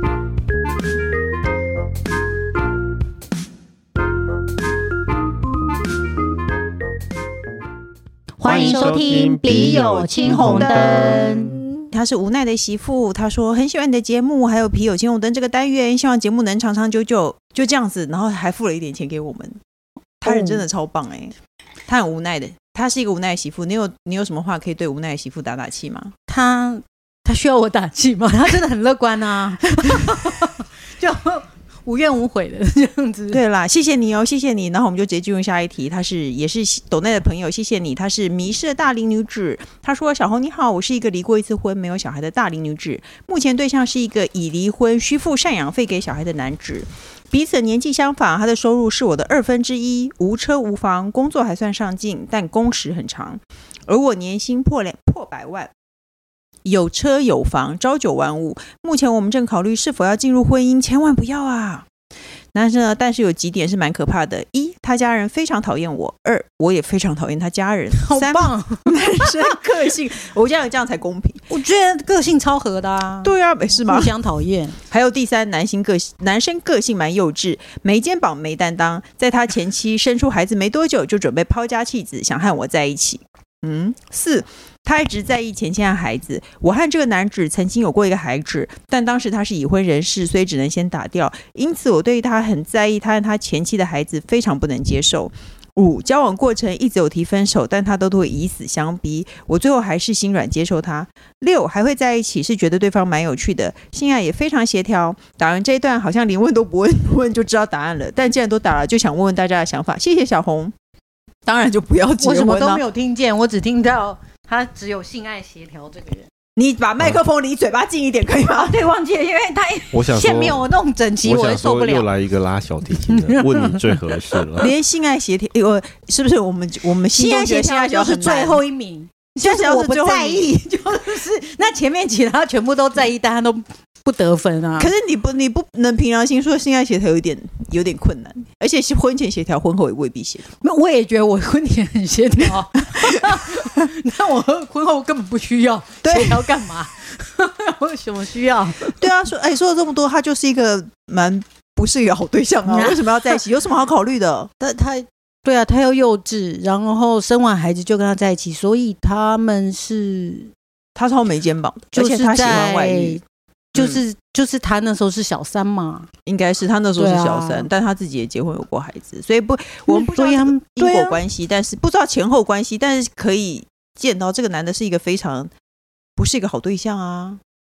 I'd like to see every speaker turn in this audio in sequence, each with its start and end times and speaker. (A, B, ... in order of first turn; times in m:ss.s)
0:08.4-0:11.5 A
0:08.4-0:11.7 B
0:08.6-0:08.9 C
0:09.5-0:19.6 C
0:20.2-0:21.4 C
0:20.3-0:20.6 A
0:21.9-0:26.1 C
0:26.3-0:33.4 A
0:29.9-0:30.3 C
0:33.3-0:55.7 C
0:56.6-1:01.9 C
1:02.5-1:11.4 C
1:08.0-1:09.5 A
1:11.5-1:14.8 A
1:13.2-1:14.1 C
1:14.9-1:50.8 C
1:51.5-1:52.8 C
1:52.2-1:56.3 A
1:56.6-1:58.8 C
1:58.5-2:02.1 A
1:59.9-2:00.7 B
2:01.2-2:04.7 B
2:03.0-2:04.6 A
2:04.6-2:08.6 C
2:07.1-2:14.9 A
2:09.4-2:10.5 C
2:14.8-2:20.5 C
2:20.6-2:29.0 A
2:23.0-2:23.8 C
2:26.0-2:26.6 C
2:29.0-2:34.5 C
2:32.7-2:33.4 A
2:34.6-2:40.5 A
2:41.0-2:43.2 C
2:41.9-2:43.2 A
2:43.7-2:46.1 A
2:43.8-2:44.0 C
2:46.3-2:55.5 C
2:47.0-2:47.7 A
2:49.9-2:51.2 A
2:56.2-2:57.4 C